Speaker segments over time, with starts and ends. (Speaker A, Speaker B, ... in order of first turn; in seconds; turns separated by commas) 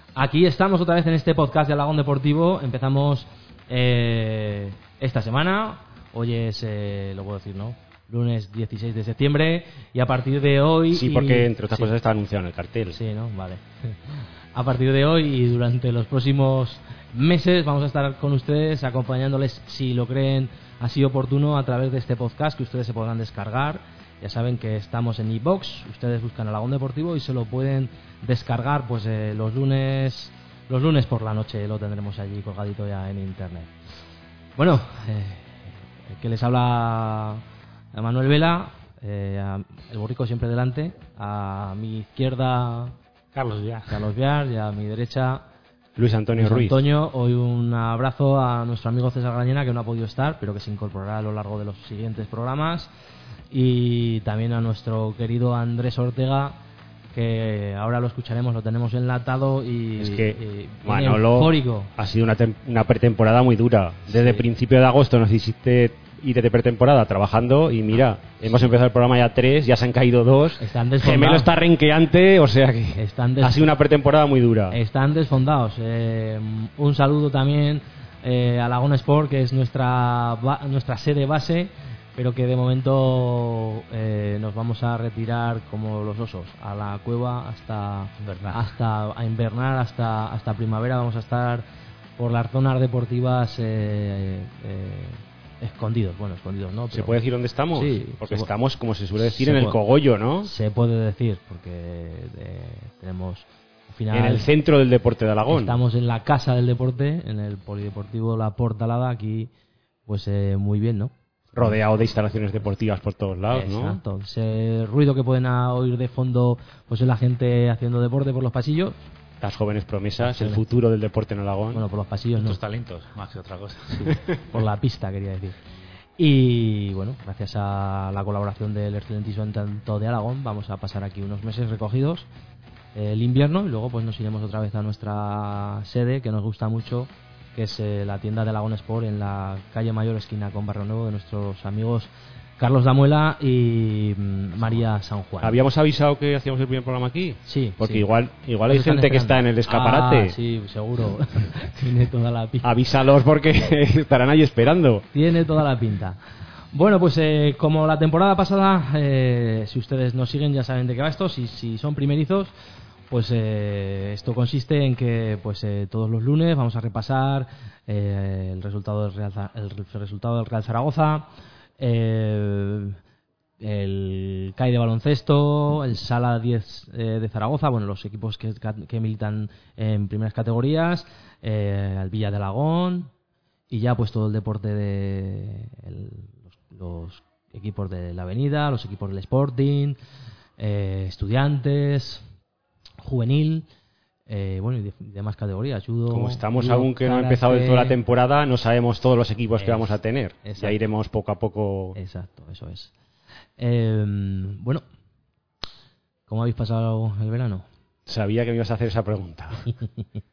Speaker A: 0.1-11.9, Speaker B: 10.9-13.0, Speaker A: 12.9-33.7, Speaker A: 34.6-37.4, Speaker A: 37.9-43.0, Speaker C: 43.3-44.0, Speaker A: 43.9-45.4, Speaker B: 46.0-46.8, Speaker A: 46.4-52.9, Speaker A: 53.5-56.6, Speaker A: 57.1-61.9, Speaker B: 60.0-74.8, Speaker A: 64.1-64.4, Speaker A: 70.6-71.5, Speaker A: 73.0-73.7, Speaker A: 74.7-91.6, Speaker C: 88.2-88.6, Speaker A: 92.2-97.2, Speaker B: 96.9-100.5, Speaker A: 97.7-98.5, Speaker A: 99.3-99.8, Speaker A: 100.4-104.5, Speaker B: 104.1-105.8, Speaker A: 105.5-109.5, Speaker A: 110.0-111.7, Speaker B: 111.5-114.0, Speaker A: 113.5-119.0, Speaker B: 119.4-121.8, Speaker A: 120.2-120.6, Speaker A: 121.7-122.6, Speaker C: 122.4-124.2, Speaker A: 124.5-125.5, Speaker A: 126.2-132.3, Speaker A: 132.9-145.6, Speaker B: 145.4-150.4, Speaker A: 147.4-148.1, Speaker A: 148.7-152.7, Speaker B: 152.6-155.1, Speaker A: 155.1-156.2, Speaker A: 156.7-162.5, Speaker A: 163.1-173.0, Speaker A: 173.6-183.1, Speaker A: 183.7-190.0, Speaker A: 190.6-192.2, Speaker A: 193.0-193.7, Speaker A: 194.3-197.9, Speaker B: 196.1-202.0, Speaker A: 199.6-200.8, Speaker A: 201.9-202.9, Speaker A: 203.6-204.8, Speaker A: 206.3-207.6, Speaker B: 208.1-209.7